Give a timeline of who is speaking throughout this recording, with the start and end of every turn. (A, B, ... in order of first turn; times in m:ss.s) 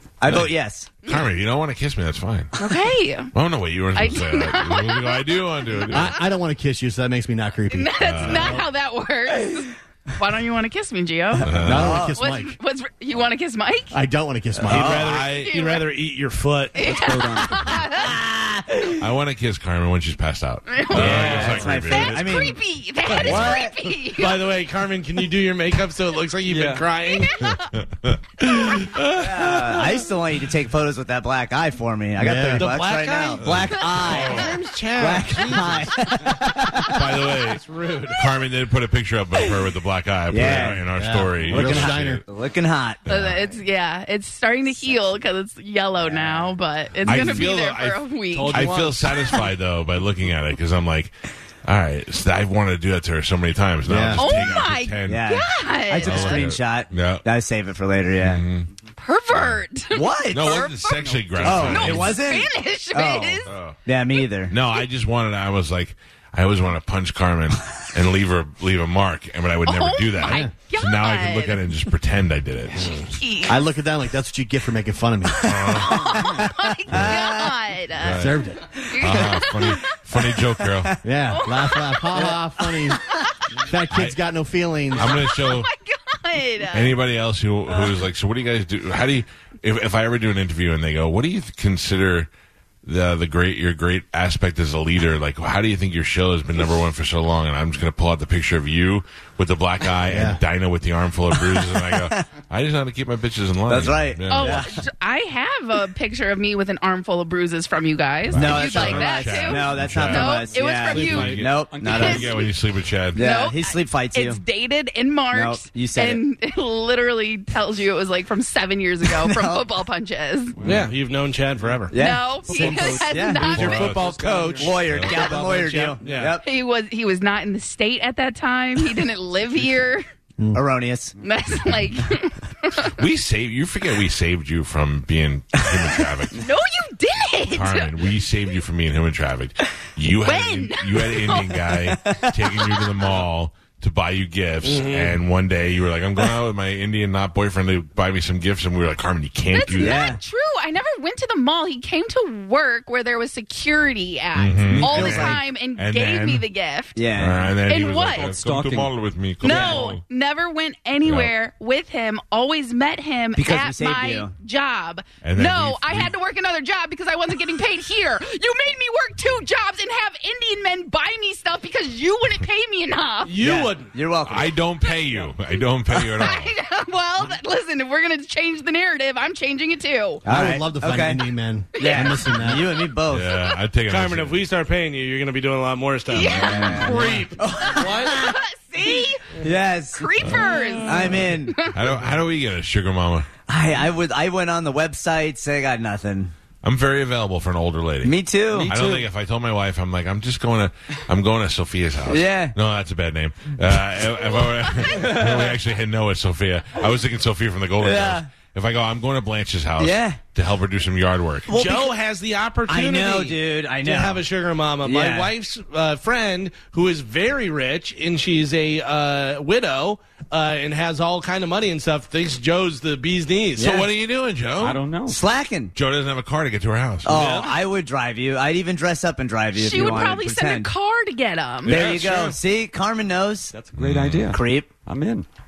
0:00.2-0:01.0 A
0:01.0-0:02.5 B
0:02.6-0:03.3 C
0:03.3-0:06.2 B
0:03.9-0:06.1 C
0:05.9-0:08.6 D
0:07.7-0:14.0 C
0:08.0-0:08.6 B
0:11.4-0:12.2 A
0:11.4-0:12.1 B
0:11.6-0:12.6 D
0:13.9-0:15.1 D
0:14.6-0:15.2 A
0:14.7-0:16.8 E
0:15.0-0:15.5 B
0:15.3-0:15.8 C
0:16.8-0:18.1 C
0:16.8-0:17.8 F
0:17.9-0:19.0 A
0:19.0-0:22.6 B
0:20.7-0:24.4 C
0:20.9-0:22.6 A
0:21.0-0:21.7 E
0:23.2-0:23.7 A
0:23.2-0:23.6 B
0:24.1-0:27.4 E
0:26.5-0:26.9 F
0:27.0-0:27.7 C
0:27.4-0:29.9 B
0:29.1-0:37.2 A
0:32.2-0:32.8 D
0:32.6-0:36.0 E
0:33.4-0:34.6 B
0:36.9-0:37.6 B
0:37.4-0:38.2 E
0:38.1-0:42.2 B
0:40.3-0:40.9 A
0:40.4-0:42.2 D
0:41.5-0:43.1 A
0:43.1-0:43.5 B
0:43.1-0:48.8 C
0:46.0-0:46.5 A
0:47.0-0:51.1 B
0:48.3-0:49.4 E
0:51.6-0:55.3 B
0:53.9-0:54.4 D
0:54.2-0:56.5 C
0:55.0-0:58.4 A
0:56.0-0:57.2 B
0:58.2-0:58.7 B
0:59.0-1:03.5 C
0:59.9-1:00.7 A
1:00.3-1:02.2 B
1:01.0-1:01.8 F
1:01.4-1:04.6 A
1:03.5-1:03.8 B
1:04.5-1:13.1 B
1:09.6-1:11.7 C
1:10.2-1:10.5 D
1:13.0-1:13.6 C
1:13.5-1:15.9 D
1:15.4-1:16.2 B
1:15.4-1:17.5 A
1:15.8-1:19.9 C
1:18.0-1:18.4 B
1:18.1-1:19.2 D
1:19.0-1:21.0 B
1:20.4-1:21.0 A
1:21.0-1:23.0 D
1:21.3-1:22.3 C
1:22.1-1:23.0 A
1:23.6-1:25.3 D
1:23.9-1:24.2 B
1:25.0-1:25.7 B
1:25.0-1:27.0 C
1:26.7-1:32.3 B
1:32.8-1:44.7 B
1:40.0-1:40.4 D
1:41.3-1:42.2 A
1:43.7-1:44.8 A
1:44.3-1:52.5 C
1:48.3-1:53.2 B
1:48.3-1:52.4 A
1:50.9-1:51.4 E
1:51.4-1:52.5 F
1:53.1-1:54.4 A
1:53.2-2:00.6 C
1:55.3-1:56.2 A
1:59.0-1:59.7 A
2:00.6-2:00.9 F
2:00.6-2:01.9 E
2:01.9-2:03.6 A
2:01.9-2:03.8 C
2:02.5-2:04.9 F
2:03.5-2:04.2 B
2:03.6-2:06.4 E
2:04.6-2:06.4 A
2:04.8-2:05.2 B
2:06.4-2:10.0 C
2:10.5-2:11.2 A
2:11.2-2:13.0 C
2:12.9-2:16.4 B
2:15.6-2:16.0 A
2:16.4-2:17.9 C
2:17.5-2:30.1 B
2:20.2-2:21.6 C
2:21.9-2:22.9 A
2:24.6-2:25.2 E
2:29.5-2:37.0 C
2:29.8-2:30.2 A
2:34.4-2:36.5 B
2:34.8-2:35.4 A
2:37.0-2:37.5 A
2:37.1-2:40.0 B
2:37.6-2:38.3 C
2:38.2-2:39.1 F
2:39.4-2:53.3 C
2:39.4-2:39.8 A
2:41.0-2:41.3 B
2:43.4-2:44.3 A
2:45.2-2:46.1 B
2:53.2-2:53.9 E
2:53.4-2:54.6 A
2:54.3-2:56.5 B
2:56.1-3:00.2 C
3:00.2-3:03.4 A
3:00.3-3:02.9 D
3:01.8-3:02.7 C
3:03.1-3:04.4 B
3:03.9-3:08.2 E
3:06.1-3:07.0 C
3:06.3-3:08.4 A
3:07.7-3:09.3 C
3:09.4-3:11.6 A
3:09.9-3:11.8 C
3:10.2-3:10.5 B
3:11.6-3:13.3 B
3:13.5-3:16.3 A
3:16.6-3:31.6 B
3:18.0-3:18.7 A
3:18.5-3:19.1 F
3:22.1-3:22.6 A
3:24.6-3:25.0 C
3:24.8-3:25.5 A
3:27.8-3:28.3 A
3:29.8-3:30.2 A
3:31.5-3:31.9 A
3:31.5-3:43.8 E
3:32.7-3:34.2 A
3:34.8-3:35.3 A
3:43.6-3:43.9 A
3:43.6-3:44.9 B
3:44.6-3:45.2 F
3:45.1-3:45.7 A
3:45.8-3:47.2 B
3:47.0-3:50.7 A
3:47.1-3:47.6 E
3:49.6-3:51.8 C
3:51.6-3:52.4 E
3:51.6-3:53.5 A
3:53.5-3:55.3 F
3:53.8-3:54.3 B
3:54.3-3:54.7 A